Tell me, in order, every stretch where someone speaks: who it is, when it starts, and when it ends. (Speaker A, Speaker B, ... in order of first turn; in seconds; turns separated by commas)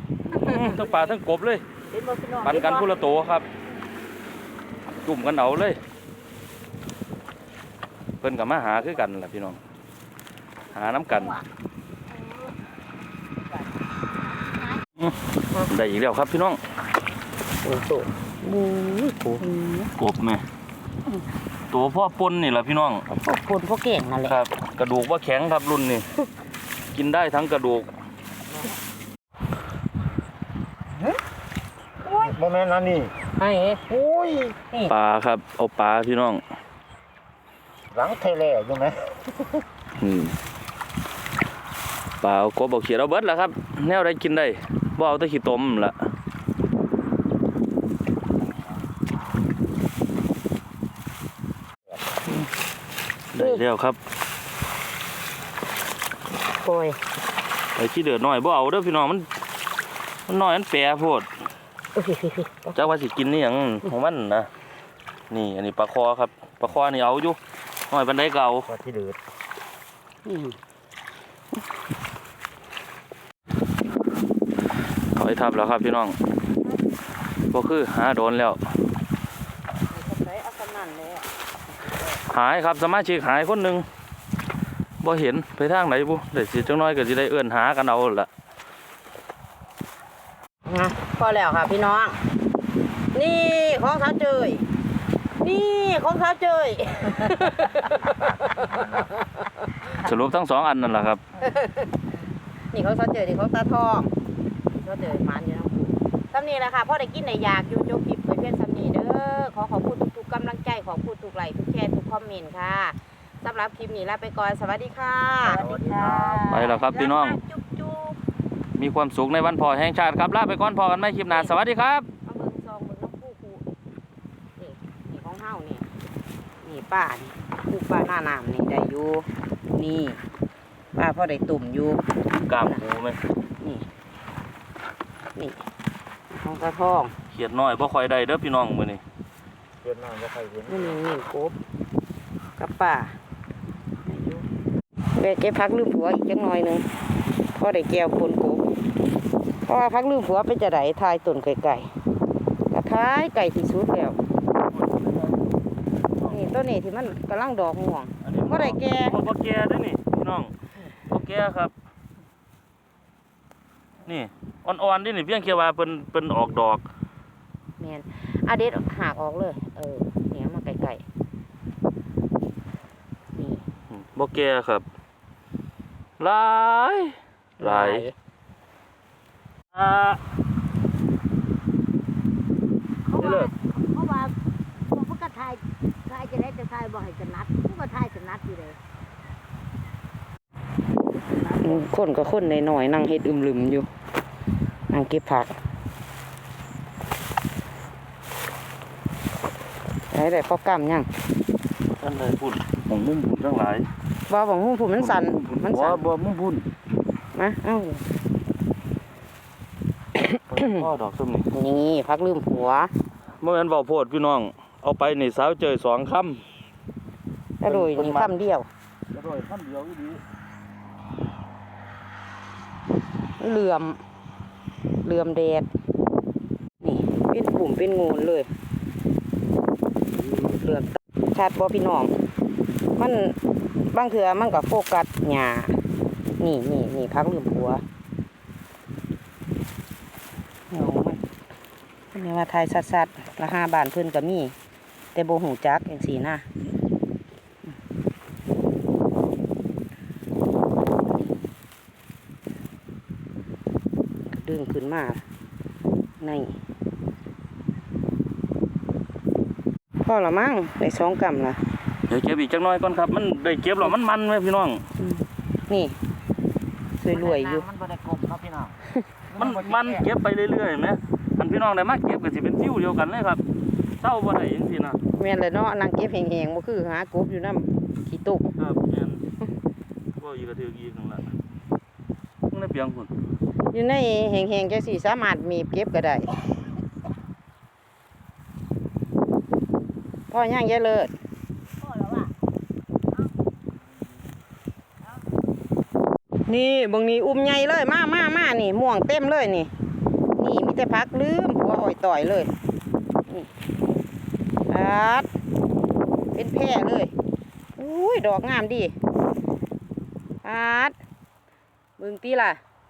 Speaker A: 0.3-1.6, Speaker B: 0.4-0.8, Speaker B: 1.9-2.9, Speaker A: 2.4-3.4, Speaker A: 5.0-5.8, Speaker A: 8.2-9.6, Speaker A: 10.7-11.4, Speaker A: 15.7-16.6, Speaker C: 17.6-19.9, Speaker A: 20.0-20.4, Speaker A: 21.7-23.0, Speaker C: 23.2-24.4, Speaker A: 24.2-26.1, Speaker A: 26.9-27.9, Speaker C: 32.1-32.4, Speaker D: 32.2-33.1, Speaker C: 33.4-33.8, Speaker D: 33.9-34.5, Speaker A: 34.9-36.4, Speaker D: 37.9-39.1, Speaker A: 40.0-40.3, Speaker A: 42.2-46.0, Speaker A: 53.3-54.0, Speaker C: 56.6-57.0, Speaker A: 57.8-59.3, Speaker A: 60.3-61.3, Speaker C: 61.9-62.8, Speaker A: 62.7-64.5, Speaker A: 65.3-67.4, Speaker A: 67.9-68.7, Speaker D: 68.7-69.2, Speaker C: 70.3-70.5, Speaker A: 75.2-76.2, Speaker A: 77.5-78.6, Speaker C: 79.9-81.3, Speaker A: 82.3-83.8, Speaker A: 85.0-88.3, Speaker C: 90.7-92.2, Speaker C: 93.1-94.7, Speaker C: 95.4-99.0, Speaker A: 99.9-101.2, Speaker C: 101.4-101.9, Speaker C: 102.7-104.1, Speaker C: 104.7-118.2, Speaker D: 115.6-116.4, Speaker B: 115.6-116.8, Speaker A: 116.5-117.4, Speaker A: 118.8-122.1, Speaker C: 121.3-121.5, Speaker C: 122.2-123.6, Speaker C: 124.6-125.9, Speaker C: 126.6-130.2, Speaker C: 130.9-132.0, Speaker A: 132.4-133.2, Speaker C: 133.6-133.9, Speaker C: 135.3-135.6, Speaker C: 136.3-137.1, Speaker A: 137.3-139.0, Speaker D: 139.8-140.9, Speaker C: 140.7-141.5, Speaker C: 142.6-143.2, Speaker C: 144.1-144.4, Speaker C: 145.1-146.9, Speaker C: 147.5-148.6, Speaker C: 149.7-151.9, Speaker C: 152.7-154.2, Speaker C: 156.2-159.2, Speaker A: 158.2-160.5, Speaker A: 161.1-161.7, Speaker A: 164.1-166.8, Speaker C: 167.8-171.0, Speaker C: 173.3-173.6, Speaker A: 173.9-174.8, Speaker A: 176.2-178.1, Speaker C: 177.6-178.1, Speaker A: 179.7-180.2, Speaker B: 183.1-184.3, Speaker A: 183.2-183.5, Speaker B: 184.9-188.8, Speaker B: 191.2-191.6, Speaker C: 191.6-193.9, Speaker C: 194.9-195.5, Speaker C: 200.1-201.1, Speaker A: 202.0-203.9, Speaker C: 204.3-206.0, Speaker A: 205.0-206.7, Speaker C: 207.3-208.0, Speaker C: 210.2-210.8, Speaker A: 210.5-211.5, Speaker C: 211.5-212.9, Speaker A: 213.4-216.4, Speaker C: 217.6-218.7, Speaker A: 217.6-218.3, Speaker A: 219.1-220.2, Speaker C: 223.4-224.0, Speaker C: 225.0-225.7, Speaker C: 226.8-228.5, Speaker C: 230.3-232.1, Speaker C: 233.0-233.3, Speaker C: 233.9-235.7, Speaker C: 236.4-237.8, Speaker C: 240.7-241.2, Speaker C: 242.1-244.5, Speaker C: 245.1-246.4, Speaker C: 254.3-255.2, Speaker C: 256.2-256.5, Speaker C: 260.0-261.6, Speaker A: 262.1-264.8, Speaker C: 265.0-265.9, Speaker C: 267.0-267.6, Speaker D: 267.2-268.7, Speaker D: 269.3-270.0, Speaker A: 269.4-273.4, Speaker A: 274.0-275.0, Speaker C: 275.2-278.5, Speaker A: 278.6-279.2, Speaker A: 280.2-281.2, Speaker A: 282.5-283.1, Speaker C: 283.7-286.4, Speaker C: 290.3-291.1, Speaker B: 291.8-292.3, Speaker C: 296.5-299.7, Speaker C: 300.3-302.5, Speaker C: 304.7-305.3, Speaker C: 306.3-307.1, Speaker C: 307.8-308.9, Speaker C: 310.4-310.9, Speaker C: 312.0-312.6